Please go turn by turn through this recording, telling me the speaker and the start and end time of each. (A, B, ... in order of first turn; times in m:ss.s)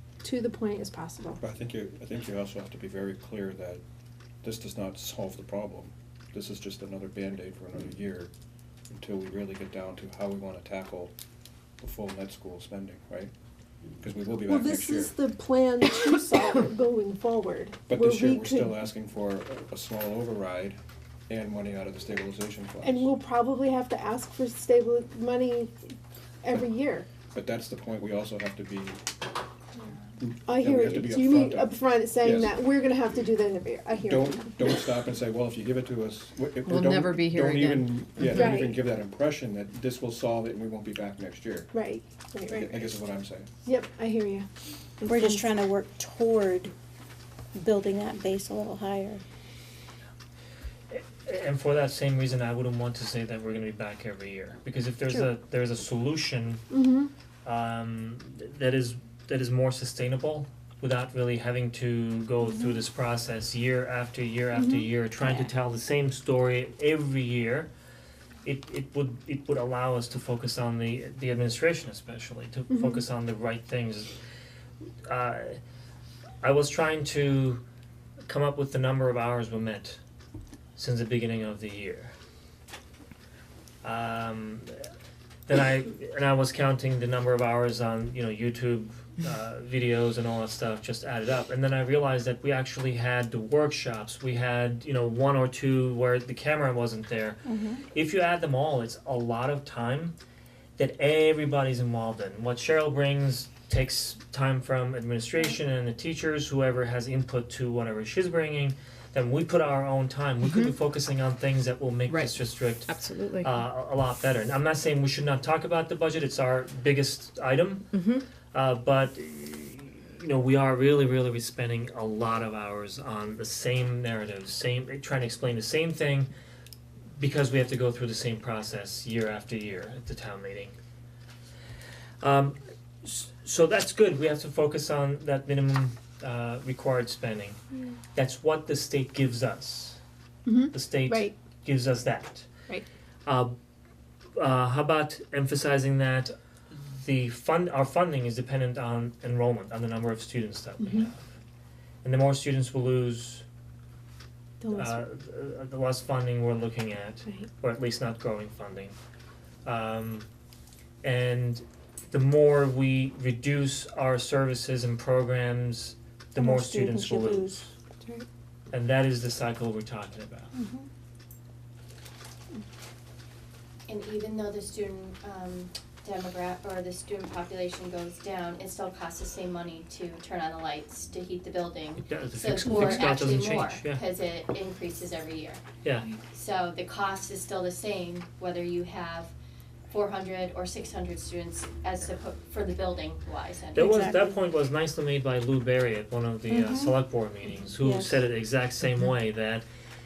0:00.2-0:01.4 A
0:01.4-0:03.8 B
0:04.4-0:08.3 B
0:08.9-0:11.1 B
0:11.8-0:13.3 B
0:14.0-0:15.2 B
0:14.5-0:18.7 A
0:17.9-0:20.8 B
0:21.3-0:23.1 B
0:22.8-0:25.7 A
0:26.4-0:27.1 A
0:27.3-0:29.0 B
0:30.2-0:32.5 B
0:30.5-0:34.8 A
0:34.0-0:41.7 B
0:36.6-0:38.6 C
0:38.3-0:38.8 A
0:41.7-0:42.7 A
0:42.5-0:43.5 B
0:43.6-0:44.5 A
0:45.0-0:45.5 A
0:45.1-0:46.7 D
0:47.6-0:49.2 D
0:50.9-0:56.6 E
0:56.7-0:57.1 A
0:57.4-1:07.7 E
1:04.5-1:04.8 A
1:08.4-1:14.1 E
1:12.7-1:13.0 A
1:15.1-1:15.6 E
1:16.4-1:17.6 E
1:18.3-1:20.0 E
1:20.8-1:22.1 E
1:23.8-1:24.9 E
1:25.5-1:40.1 E
1:37.5-1:37.8 D
1:40.8-1:57.9 E
1:50.4-1:50.7 C
1:52.1-1:53.6 C
1:57.9-1:58.2 C
1:58.5-2:06.3 E
2:07.2-2:10.7 E
2:12.2-2:17.6 E
2:18.2-2:20.0 E
2:20.5-2:21.3 A
2:20.7-2:22.5 E
2:23.2-2:23.5 E
2:24.4-2:26.3 E
2:27.0-2:31.3 E
2:32.0-2:33.4 E
2:34.6-2:35.0 A
2:34.7-2:39.0 E
2:39.6-2:40.3 E
2:41.0-2:47.7 E
2:46.4-2:48.2 D
2:48.7-2:50.5 E
2:50.5-2:50.9 D
2:53.9-3:05.6 F
3:02.0-3:04.0 E
3:05.8-3:06.2 E
3:06.3-3:09.3 F
3:09.9-3:13.9 F
3:13.7-3:19.7 E
3:13.8-3:14.4 D
3:16.5-3:17.0 D
3:17.8-3:18.2 D